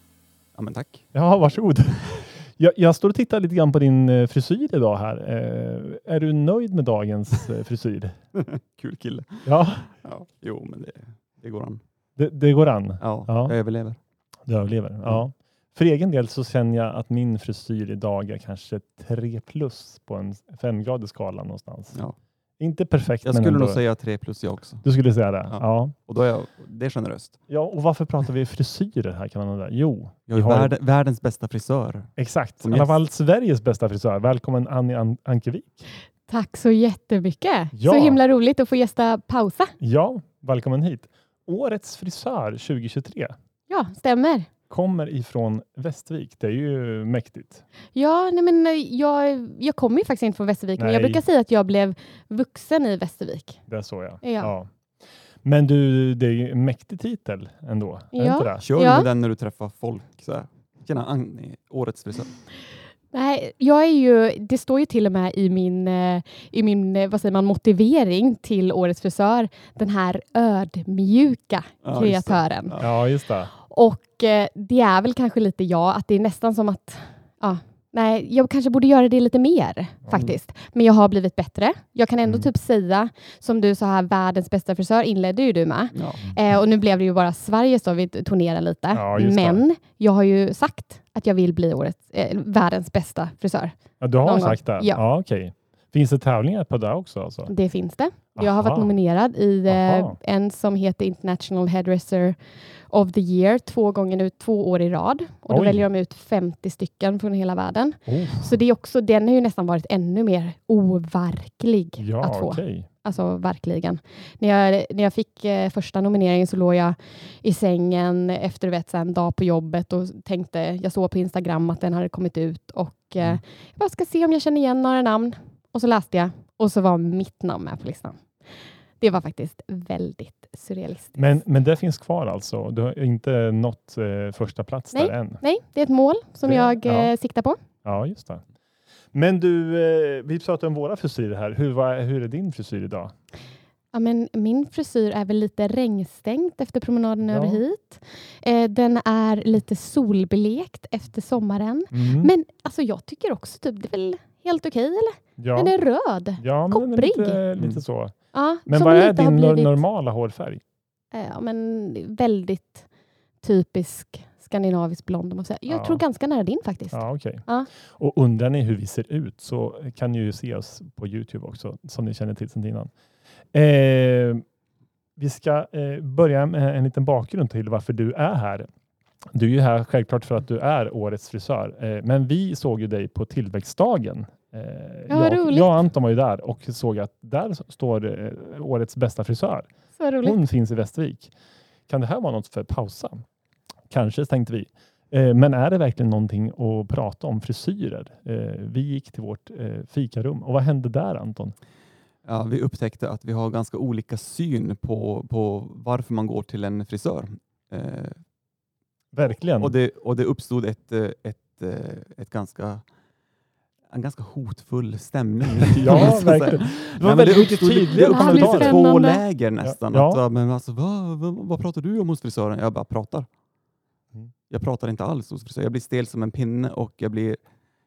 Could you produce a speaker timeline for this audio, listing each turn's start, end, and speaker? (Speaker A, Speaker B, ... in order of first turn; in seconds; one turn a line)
Speaker A: 0.6-1.1
Speaker B: 1.1-8.2
Speaker A: 8.3-11.8
Speaker B: 9.4-9.9
Speaker B: 12.2-13.6
Speaker A: 13.0-14.0
Speaker B: 14.5-22.0
Speaker B: 22.6-23.8
Speaker A: 23.2-24.8
Speaker B: 24.8-25.9
Speaker A: 25.5-27.4
Speaker B: 27.5-30.7
Speaker A: 30.3-32.9
Speaker B: 32.2-35.9
Speaker C: 36.3-39.8
Speaker B: 37.8-38.2
Speaker B: 39.8-43.4
Speaker C: 43.7-44.5
Speaker B: 44.7-47.6
Speaker C: 47.9-53.6
Speaker B: 50.8-51.2
Speaker B: 53.7-54.7
Speaker C: 54.2-54.5
Speaker B: 55.4-58.7
Speaker C: 58.1-59.1
Speaker A: 58.6-62.4
Speaker C: 63.1-72.8
Speaker A: 71.8-72.9
Speaker B: 72.8-73.5
Speaker C: 73.6-95.0
Speaker B: 80.0-80.3
Speaker A: 85.9-86.2
Speaker B: 88.9-89.6
Speaker B: 94.0-97.5
Speaker C: 97.5-102.4
Speaker B: 98.4-98.9
Speaker B: 99.7-100.2
Speaker C: 102.9-128.2
Speaker B: 105.5-105.8
Speaker B: 108.1-108.5
Speaker B: 112.0-112.9
Speaker C: 129.0-131.3
Speaker B: 131.2-135.4
Speaker C: 134.9-137.6
Speaker B: 136.4-137.1
Speaker B: 137.8-138.4
Speaker B: 139.1-143.1
Speaker C: 143.9-157.4
Speaker B: 147.3-147.6
Speaker B: 151.9-152.3
Speaker B: 155.4-155.7
Speaker B: 156.4-158.2
Speaker C: 158.3-159.8
Speaker B: 158.7-160.6
Speaker C: 161.1-162.9
Speaker C: 163.4-167.7
Speaker B: 165.7-166.0
Speaker B: 166.9-172.9
Speaker B: 173.5-174.4
Speaker B: 175.2-178.7
Speaker B: 179.3-189.7
Speaker C: 185.1-185.7
Speaker C: 190.0-190.4
Speaker B: 190.2-191.3
Speaker B: 191.9-193.2
Speaker B: 193.9-201.6
Speaker A: 202.2-208.2
Speaker B: 209.1-209.7
Speaker A: 209.6-212.8
Speaker A: 213.9-223.3
Speaker B: 215.8-218.8
Speaker C: 218.0-219.2
Speaker B: 219.6-220.2
Speaker A: 224.5-227.4